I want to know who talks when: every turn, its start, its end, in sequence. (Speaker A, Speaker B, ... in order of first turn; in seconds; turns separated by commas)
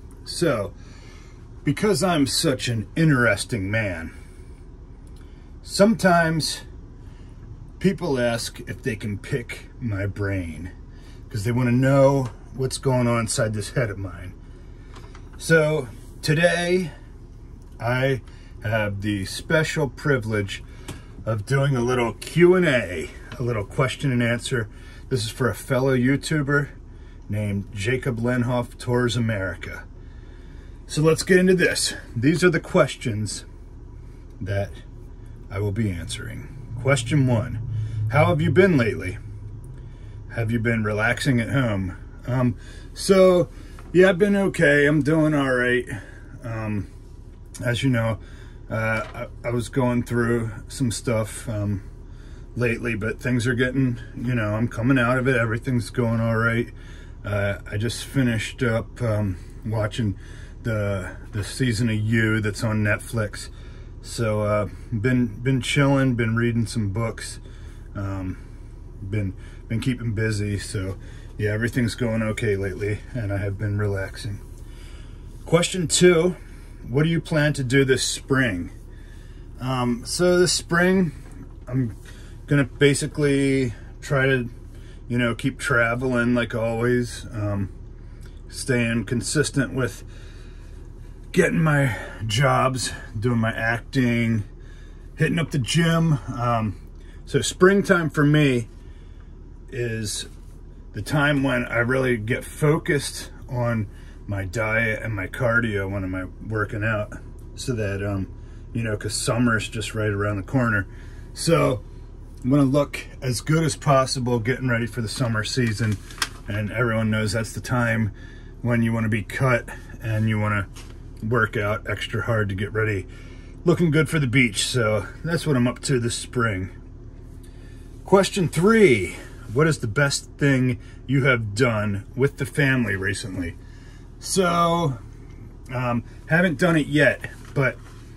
Speaker A: 0.2-0.8, Speaker A: 1.6-4.1, Speaker A: 5.6-6.6, Speaker A: 7.8-10.7, Speaker A: 11.3-14.4, Speaker A: 15.4-16.9, Speaker A: 17.8-20.6, Speaker A: 21.2-26.7, Speaker A: 27.3-29.9, Speaker A: 30.9-33.5, Speaker A: 34.4-34.7, Speaker A: 35.5-39.2, Speaker A: 40.3-46.9, Speaker A: 47.6-51.8, Speaker A: 52.5-63.5, Speaker A: 64.0-67.4, Speaker A: 67.9-68.4, Speaker A: 69.0-74.4, Speaker A: 75.4-78.7, Speaker A: 79.6-81.1, Speaker A: 81.7-82.0, Speaker A: 82.5-84.5, Speaker A: 85.1-87.7, Speaker A: 88.5-90.1, Speaker A: 91.3-94.5, Speaker A: 95.2-98.7, Speaker A: 99.7-100.3, Speaker A: 100.9-111.8, Speaker A: 112.4-120.7, Speaker A: 121.2-123.1, Speaker A: 123.6-126.7, Speaker A: 128.0-133.6, Speaker A: 134.2-135.0, Speaker A: 135.7-137.8